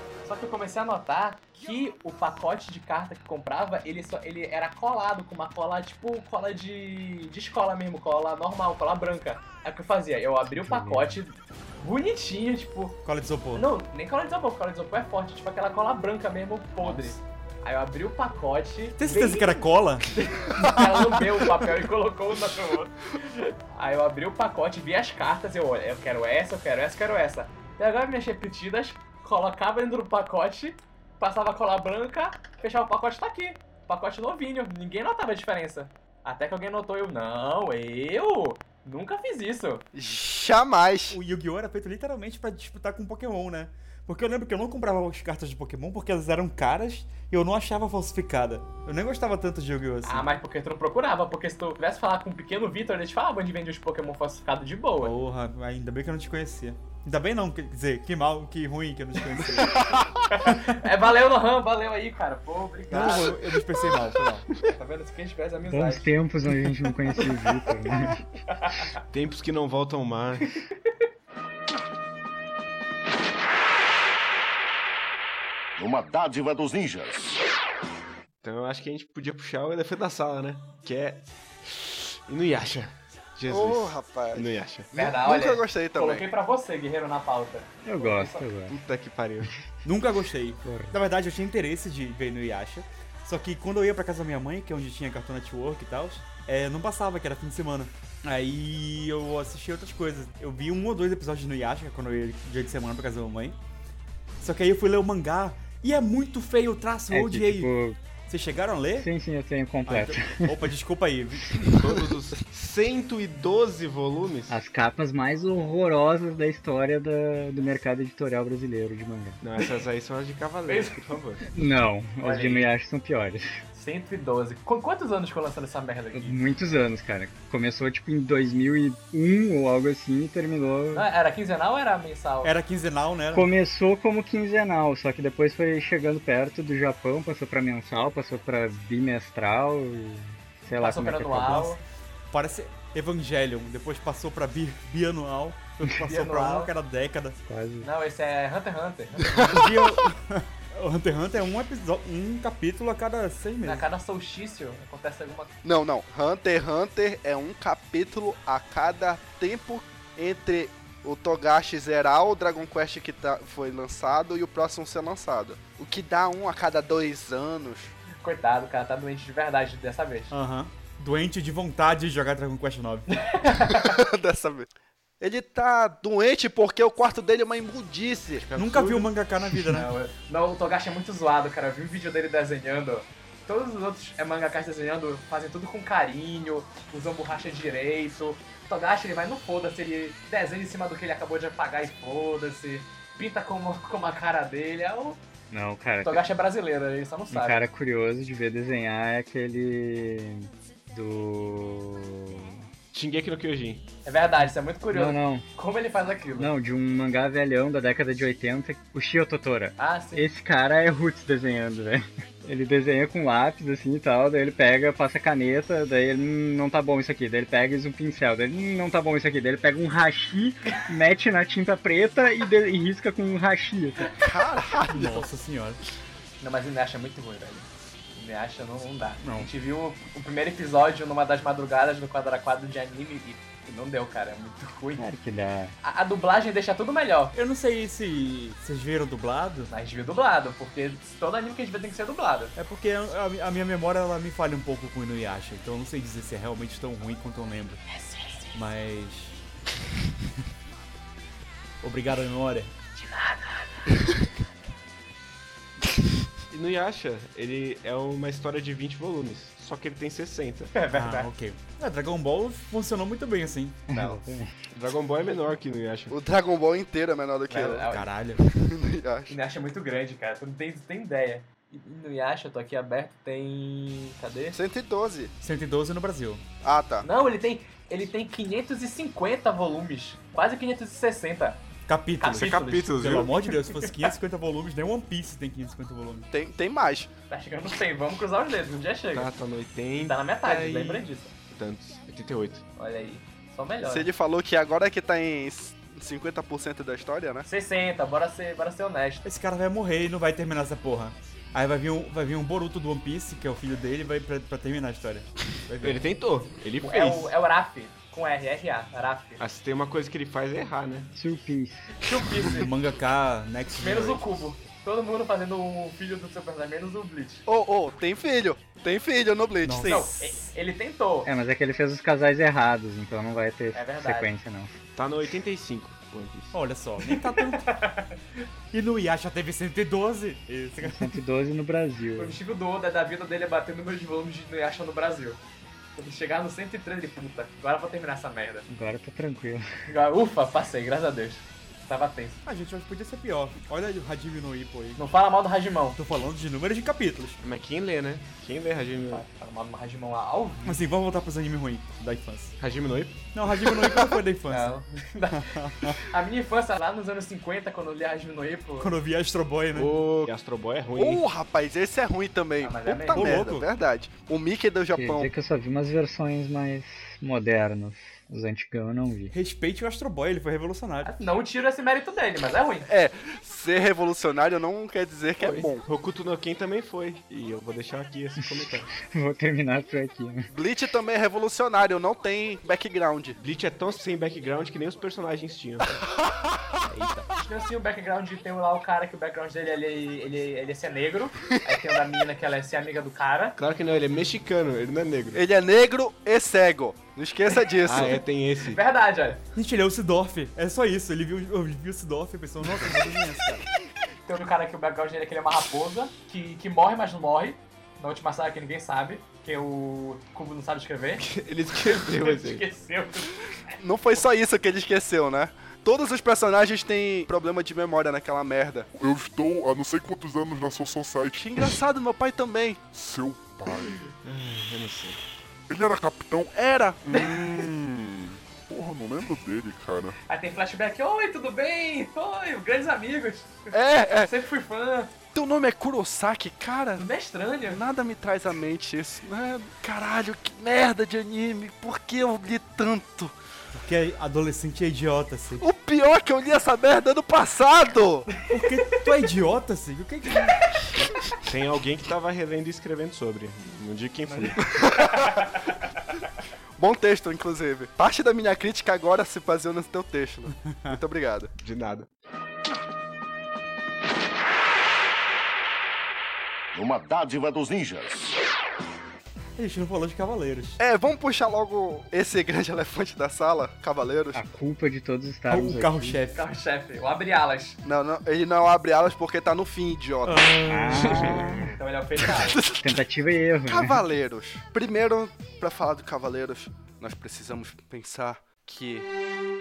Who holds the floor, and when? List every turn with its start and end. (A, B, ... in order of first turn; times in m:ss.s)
0:00.2-0:13.0 A
0:10.5-0:11.2 B
0:13.0-0:13.7 C
0:13.5-0:19.6 A
0:16.8-0:17.1 C
0:19.0-0:21.2 C
0:20.2-0:39.8 A
0:39.9-0:41.2 D
0:41.1-0:50.3 C
0:50.0-0:55.1 A
0:55.0-1:00.0 C
1:00.3-1:03.4 A
1:02.9-1:04.5 C
1:04.6-1:06.1 A
1:05.7-1:08.2 B
1:07.2-1:07.6 A
1:08.5-1:08.9 A
1:09.1-1:10.6 E
1:10.6-1:10.9 A
1:15.8-1:17.4 F
1:18.4-1:24.9 E
1:23.5-1:26.3 D
1:24.9-1:28.5 A
1:27.8-1:28.8 B
1:28.7-1:29.5 E
1:29.8-1:43.6 C
1:30.6-1:31.0 B
1:44.4-1:47.7 C
1:47.1-1:48.0 B
1:48.3-1:49.1 C
1:49.0-1:50.6 B
1:49.9-1:51.6 C
1:51.7-1:54.6 E
1:54.5-1:59.4 B
1:59.4-2:01.4 E
2:00.7-2:01.2 A
2:01.5-2:03.6 B
2:02.2-2:02.7 A
2:03.8-2:06.4 A
2:06.1-2:11.1 B
2:10.9-2:12.5 A
2:12.4-2:13.5 C
2:13.3-2:21.8 B
2:20.7-2:21.8 A
2:22.3-2:27.4 C
2:26.1-2:26.7 A
2:27.5-2:27.9 B
2:27.8-2:29.6 A
2:29.4-2:33.8 C
2:33.6-2:35.5 A
2:35.6-2:47.9 D
2:48.2-2:50.3 A
2:50.3-2:53.1 C
2:53.1-2:54.0 A
2:53.7-2:58.4 D
2:58.4-2:59.1 E
2:58.6-2:59.9 C
2:59.5-3:15.2 A
3:15.5-3:16.3 B
3:16.0-3:17.7 A
3:17.3-3:22.6 B
3:22.9-3:23.9 E
3:24.0-3:26.5 A
3:24.9-3:25.4 B
3:26.4-3:44.1 B
3:29.8-3:30.3 A
3:44.2-3:45.1 D
3:44.9-3:45.2 A
3:44.9-3:45.8 C
3:46.4-3:55.0 A
3:49.2-3:49.5 C
3:55.0-3:55.7 B
3:55.8-3:57.4 A
3:57.3-3:59.7 C
3:59.7-4:02.6 A
4:02.6-4:07.8 C
4:07.9-4:08.5 A
4:08.5-4:09.4 C
4:11.8-4:12.7 C
4:13.0-4:13.9 A
4:16.5-4:20.7 E
4:20.7-4:21.3 A
4:20.9-4:24.0 C
4:23.9-4:24.6 B
4:24.7-4:26.1 E
4:26.1-4:27.9 D
4:27.5-4:28.1 A
4:27.9-4:28.4 C
4:28.5-4:29.4 D
4:29.3-4:34.6 A
4:34.5-4:35.3 D
4:35.4-4:36.4 C
4:36.6-4:37.1 D
4:37.0-4:41.6 A
4:41.9-4:46.3 C
4:42.2-4:42.8 A
4:42.2-4:43.4 E
4:46.3-4:47.1 D
4:47.3-4:49.3 A
4:49.1-4:52.6 E
4:50.0-4:51.3 A
4:52.8-4:54.1 A
4:53.8-4:57.5 D
4:57.5-4:59.3 A
4:59.2-5:06.0 C
5:05.8-5:07.3 E
5:06.8-5:09.4 A
5:09.4-5:11.1 E
5:11.1-5:11.9 B
5:12.0-5:12.7 A
5:12.6-5:14.4 C
5:13.8-5:17.4 A
5:17.5-5:20.1 D
5:19.6-5:20.2 C
5:19.8-5:21.3 A
5:21.2-5:24.7 B
5:23.7-5:24.3 A
5:25.0-5:26.6 E
5:26.5-5:27.7 C
5:27.0-5:28.5 A
5:28.7-5:31.2 C
5:30.8-5:32.4 B
5:32.2-5:35.4 A
5:36.0-5:38.7 A
5:38.7-5:39.7 B
5:39.9-5:42.4 A
5:42.5-5:45.0 C
5:45.0-5:46.0 A
5:46.0-5:47.4 C
5:47.4-5:49.2 E
5:49.1-5:50.8 A
5:50.6-5:52.6 C
5:52.6-5:53.2 E
5:53.3-5:54.8 C
5:54.5-5:59.0 A
5:55.3-5:56.0 C
5:58.8-6:00.0 C
5:59.7-6:01.2 E
6:01.0-6:05.3 D
6:02.6-6:03.4 A
6:03.1-6:03.7 C
6:04.9-6:09.3 B
6:09.3-6:11.2 C
6:11.0-6:12.9 A
6:12.9-6:15.8 D
6:15.4-6:18.9 E
6:18.4-6:20.5 B
6:20.5-6:23.4 D
6:23.4-6:26.0 E
6:26.9-6:27.3 C
6:27.4-6:33.6 A
6:33.6-6:35.4 E
6:35.3-6:38.2 D
6:37.8-6:38.8 E
6:38.6-6:39.4 A
6:39.6-6:43.6 C
6:44.3-6:51.3 A
6:51.2-6:52.6 E
6:51.9-6:53.8 A
6:53.8-6:58.9 D
6:58.9-7:01.7 G
7:01.3-7:02.8 D
7:02.9-7:04.1 G
7:04.2-7:05.2 E
7:05.7-7:10.2 G
7:06.5-7:07.0 D
7:07.1-7:07.5 A
7:10.3-7:15.1 A
7:13.7-7:14.3 D
7:15.3-7:17.1 D
7:17.0-7:17.8 A
7:17.6-7:23.4 D
7:23.7-7:25.6 C
7:25.6-7:28.3 D
7:28.5-7:30.6 C
7:31.4-7:34.7 E
7:34.2-7:35.6 A
7:36.8-7:41.5 D
7:40.7-7:41.0 C
7:41.6-7:42.1 E
7:46.7-7:48.4 F
7:49.6-7:50.8 C
7:50.8-7:54.4 D
7:54.3-7:56.2 B
7:55.5-7:56.4 C
7:56.3-7:57.8 A
7:57.8-8:00.5 D
8:00.2-8:01.7 C
8:00.6-8:01.8 B
8:01.8-8:02.6 A
8:02.2-8:03.0 D
8:02.8-8:04.0 B
8:03.7-8:09.1 D